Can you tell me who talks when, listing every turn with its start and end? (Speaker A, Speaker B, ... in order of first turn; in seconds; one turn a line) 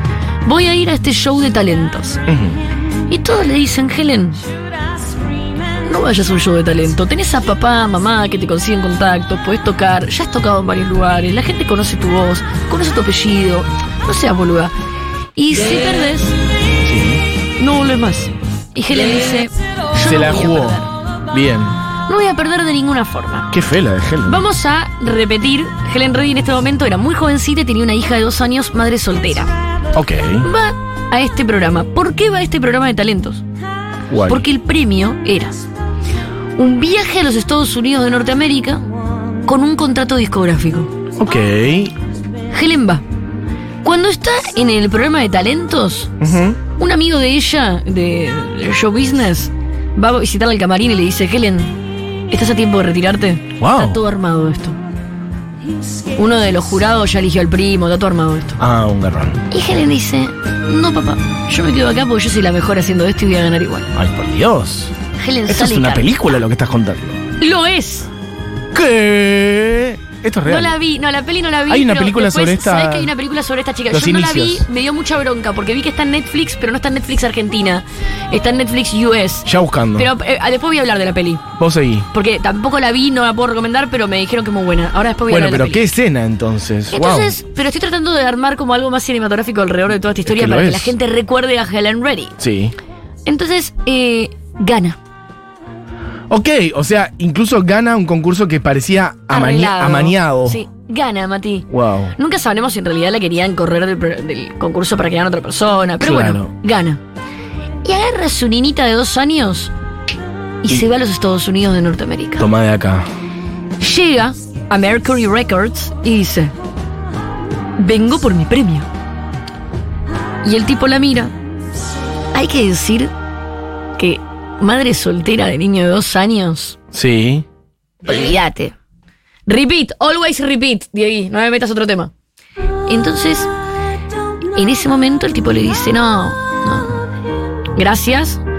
Speaker A: 0.4-2.2
Speaker B: 2.3-2.6
Speaker A: 3.1-4.4
Speaker A: 5.8-14.7
Speaker A: 15.3-16.4
Speaker B: 16.8-17.2
Speaker A: 17.6-20.9
Speaker B: 20.0-21.8
Speaker A: 22.1-23.5
Speaker B: 23.5-24.4
Speaker A: 24.2-29.5
Speaker B: 29.9-30.5
Speaker A: 30.4-33.4
Speaker B: 34.1-34.5
Speaker A: 34.3-35.6
Speaker A: 36.6-38.9
Speaker A: 39.5-40.9
Speaker B: 41.2-41.9
Speaker A: 42.5-43.0
Speaker A: 43.8-46.1
Speaker B: 46.2-46.6
Speaker A: 46.8-54.8
Speaker B: 53.6-54.0
Speaker A: 56.2-58.6
Speaker B: 58.6-59.5
Speaker A: 59.5-63.9
Speaker B: 63.9-64.9
Speaker A: 65.2-66.1
Speaker B: 65.5-67.2
Speaker A: 67.4-68.1
Speaker B: 68.7-70.8
Speaker A: 70.5-81.5
Speaker B: 71.7-73.1
Speaker B: 73.9-74.7
Speaker B: 79.5-80.1
Speaker B: 81.6-82.1
Speaker A: 82.1-85.8
Speaker B: 85.3-87.3
Speaker A: 86.9-92.4
Speaker B: 90.3-90.9
Speaker B: 92.4-92.8
Speaker A: 93.3-95.0
Speaker B: 96.3-100.6
Speaker A: 99.3-107.0
Speaker B: 101.7-102.1
Speaker B: 106.0-106.5
Speaker A: 107.8-109.7
Speaker A: 110.6-112.5
Speaker B: 112.4-113.1
Speaker A: 113.8-116.5
Speaker A: 117.8-118.9
Speaker A: 120.4-121.3
Speaker A: 122.3-123.1
Speaker A: 124.0-126.8
Speaker B: 126.9-127.5
Speaker A: 128.0-128.8
Speaker A: 129.5-132.1
Speaker A: 132.9-133.5
Speaker A: 134.5-137.0
Speaker A: 137.8-138.4